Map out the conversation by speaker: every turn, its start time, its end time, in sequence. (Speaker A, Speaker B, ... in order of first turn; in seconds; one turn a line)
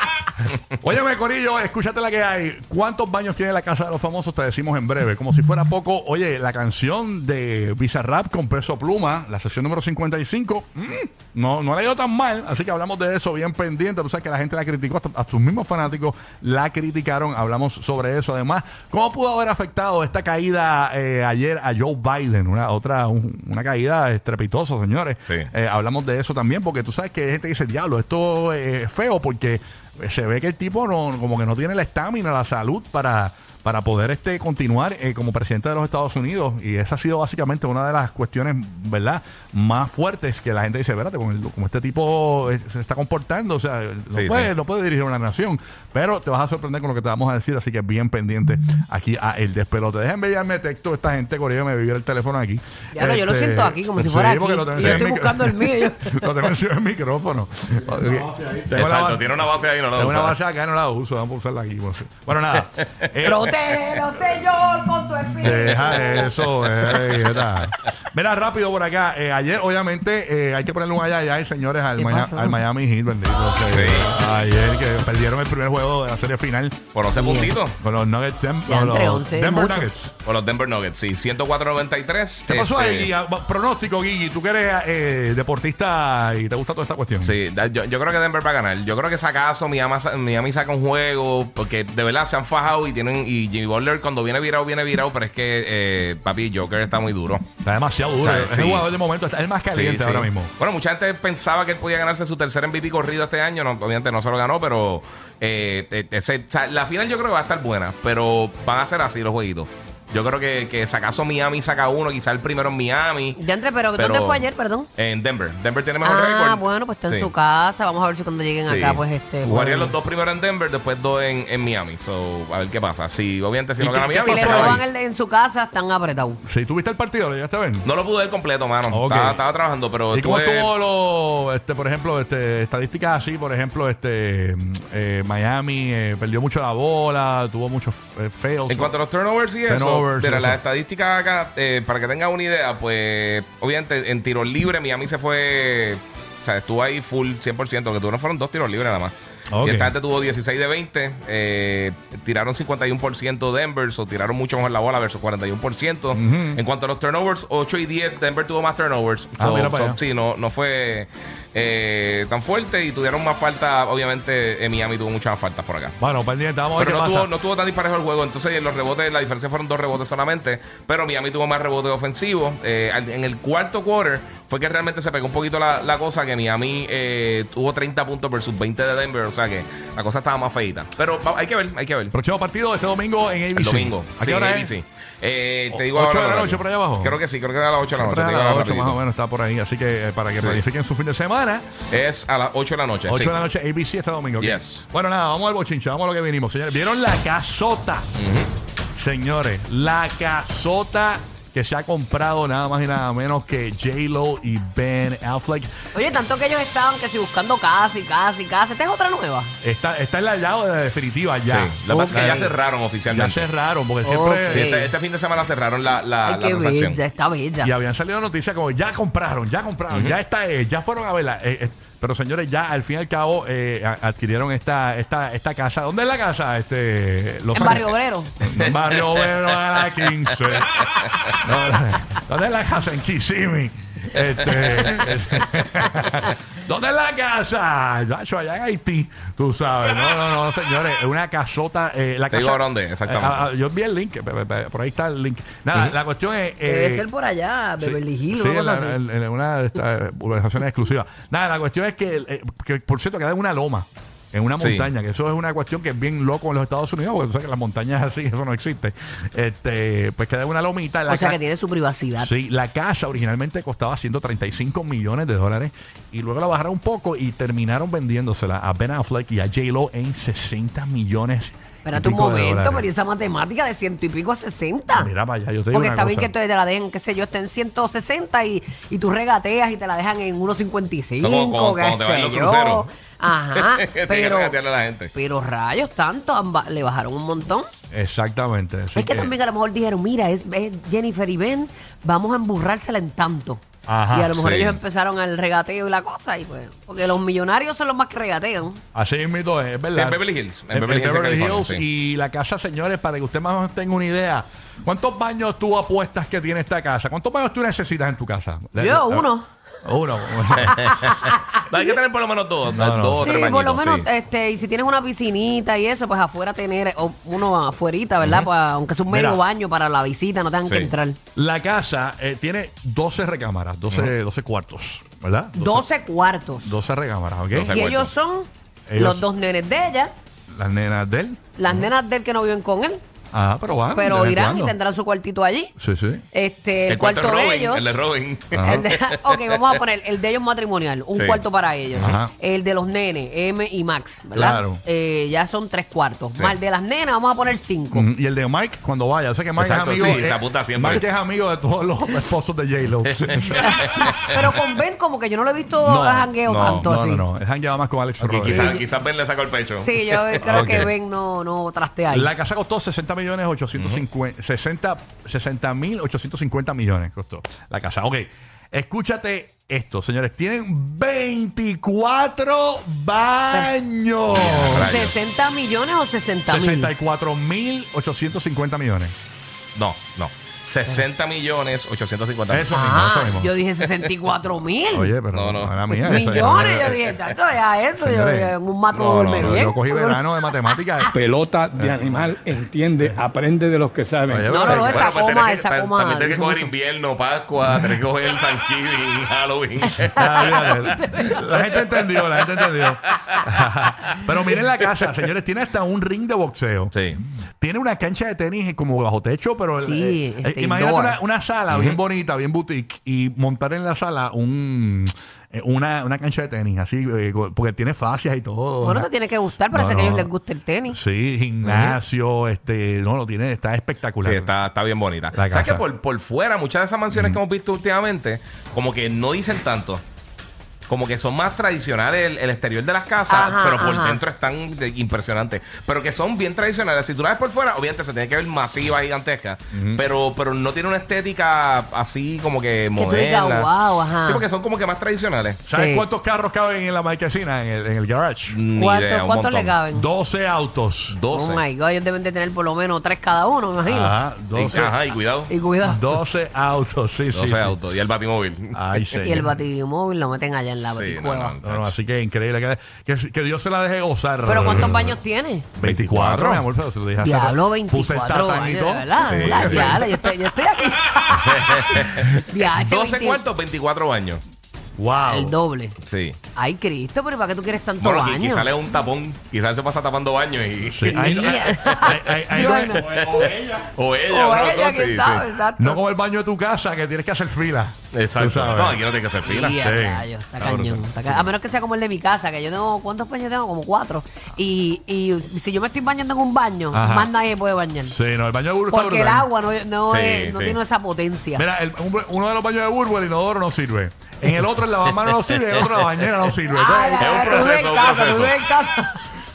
Speaker A: 0.8-63.5
Speaker B: 44.1-44.5
Speaker C: 52.9-56.3
Speaker B: 58.7-60.4
Speaker B: 62.8-63.4
Speaker C: 63.2-66.3
Speaker A: 65.3-76.8
Speaker B: 65.7-67.7
Speaker C: 72.0-72.6
Speaker B: 73.7-74.1
Speaker B: 76.9-77.8
Speaker C: 77.1-77.5
Speaker A: 77.8-80.1
Speaker C: 78.7-79.9
Speaker B: 80.2-83.1
Speaker A: 82.5-87.3
Speaker B: 87.2-97.5
Speaker A: 97.6-100.5
Speaker B: 98.2-98.9
Speaker B: 99.7-113.4
Speaker C: 113.3-114.9
Speaker B: 113.9-114.5
Speaker B: 115.0-117.3
Speaker C: 116.0-119.9
Speaker B: 118.7-124.8
Speaker A: 123.8-124.8
Speaker C: 124.2-126.4
Speaker A: 126.4-127.8
Speaker B: 127.8-130.7
Speaker A: 128.9-129.4
Speaker A: 130.1-138.9
Speaker B: 138.7-166.0
Speaker A: 139.7-140.6
Speaker A: 149.5-149.9
Speaker A: 156.1-156.6
Speaker A: 159.4-160.0
Speaker A: 166.0-167.3
Speaker B: 166.8-182.2
Speaker A: 182.1-184.7
Speaker B: 183.5-189.0
Speaker A: 185.7-187.2
Speaker A: 187.9-191.7
Speaker B: 190.3-190.6
Speaker B: 191.9-193.4
Speaker A: 193.1-198.1
Speaker B: 194.4-194.8
Speaker B: 198.2-198.5
Speaker A: 199.0-205.7
Speaker C: 205.9-209.5
Speaker A: 209.6-212.4
Speaker B: 211.5-213.5
Speaker C: 211.9-212.5
Speaker A: 213.1-214.7
Speaker C: 214.0-214.9
Speaker B: 214.5-217.0
Speaker C: 216.2-217.7
Speaker A: 217.6-247.1
Speaker B: 219.9-220.2
Speaker C: 227.5-228.3
Speaker B: 228.7-231.3
Speaker B: 234.5-235.1
Speaker B: 242.3-243.5
Speaker C: 246.7-249.0
Speaker A: 247.8-261.4
Speaker B: 254.6-254.9
Speaker C: 261.1-262.3
Speaker A: 262.1-272.9
Speaker C: 271.9-275.1
Speaker A: 274.9-276.3
Speaker C: 275.7-284.6
Speaker B: 281.2-282.9
Speaker B: 283.5-285.1
Speaker C: 285.1-287.6
Speaker A: 287.9-289.3
Speaker C: 288.9-298.8
Speaker A: 293.9-294.4
Speaker B: 294.3-294.8
Speaker A: 298.9-309.3
Speaker B: 299.9-301.8
Speaker C: 308.8-309.4
Speaker A: 309.9-311.1
Speaker B: 310.5-314.1
Speaker A: 312.7-313.3
Speaker C: 313.2-321.2
Speaker B: 318.2-318.5
Speaker A: 319.1-319.4
Speaker B: 320.6-320.9
Speaker A: 321.4-325.9
Speaker C: 325.6-326.8
Speaker A: 326.6-327.8
Speaker B: 327.5-328.1
Speaker C: 327.7-330.1
Speaker A: 328.9-329.2
Speaker A: 330.5-331.4
Speaker C: 331.6-333.0
Speaker A: 333.3-334.8
Speaker C: 333.9-335.7
Speaker A: 335.8-336.2
Speaker C: 336.3-338.0
Speaker B: 336.9-339.6
Speaker A: 338.5-338.8
Speaker C: 338.6-348.1
Speaker B: 341.1-342.2
Speaker A: 342.0-342.3
Speaker A: 344.3-344.8
Speaker A: 347.9-354.4
Speaker B: 349.6-351.1
Speaker B: 353.0-354.3
Speaker C: 353.6-357.2
Speaker A: 355.8-358.8
Speaker B: 356.4-356.9
Speaker B: 358.2-360.9
Speaker C: 358.4-358.8
Speaker C: 359.8-362.3
Speaker A: 360.4-360.9
Speaker A: 362.1-374.9
Speaker B: 363.7-364.0
Speaker B: 374.3-375.1
Speaker C: 374.5-376.9
Speaker A: 376.5-379.1
Speaker B: 379.8-382.7
Speaker A: 382.5-383.5
Speaker C: 382.7-385.1
Speaker A: 384.9-387.0
Speaker B: 385.3-387.1
Speaker C: 386.0-391.1
Speaker A: 388.0-388.5
Speaker B: 388.9-389.7
Speaker A: 389.2-391.1
Speaker D: 391.1-394.8
Speaker A: 391.7-392.4
Speaker A: 394.3-395.1
Speaker C: 394.5-396.7
Speaker B: 394.9-400.3
Speaker A: 400.1-406.9
Speaker C: 400.2-402.0
Speaker B: 402.7-403.4
Speaker B: 406.9-407.2
Speaker A: 407.6-419.1
Speaker C: 409.8-411.2
Speaker B: 411.7-412.0
Speaker C: 418.8-421.0
Speaker A: 419.7-420.3
Speaker A: 420.9-424.5
Speaker B: 421.6-422.0
Speaker B: 424.2-430.0
Speaker A: 425.3-425.8
Speaker A: 427.1-427.4
Speaker B: 430.9-445.6
Speaker C: 433.3-434.2
Speaker A: 439.7-440.0
Speaker C: 442.9-444.4
Speaker C: 445.6-446.1
Speaker A: 445.6-448.6
Speaker B: 448.5-449.8
Speaker C: 448.8-450.1
Speaker A: 449.9-451.2
Speaker B: 451.1-451.6
Speaker C: 451.3-454.1
Speaker A: 453.9-454.9
Speaker B: 454.5-455.5
Speaker C: 455.5-456.1
Speaker A: 455.8-457.8
Speaker B: 457.3-459.4
Speaker A: 458.7-459.5
Speaker C: 459.2-461.6
Speaker B: 460.8-462.0
Speaker A: 461.6-465.2
Speaker C: 464.4-465.7
Speaker B: 464.6-464.9
Speaker B: 465.8-466.6
Speaker A: 465.8-470.2
Speaker C: 467.2-473.4
Speaker B: 469.2-470.0
Speaker B: 471.3-474.4
Speaker A: 475.0-475.5
Speaker C: 475.3-475.9
Speaker B: 476.1-476.4
Speaker C: 476.5-478.7
Speaker B: 478.0-485.5
Speaker A: 480.8-483.2
Speaker C: 481.1-483.2
Speaker D: 483.2-483.8
Speaker C: 484.2-486.0
Speaker A: 485.8-489.0
Speaker B: 488.1-489.8
Speaker C: 489.4-498.1
Speaker A: 489.8-491.5
Speaker A: 496.9-497.3
Speaker A: 498.0-499.5
Speaker C: 498.9-501.6
Speaker B: 500.1-500.8
Speaker A: 501.5-507.8
Speaker B: 505.1-506.2
Speaker C: 506.7-509.2
Speaker B: 507.2-508.6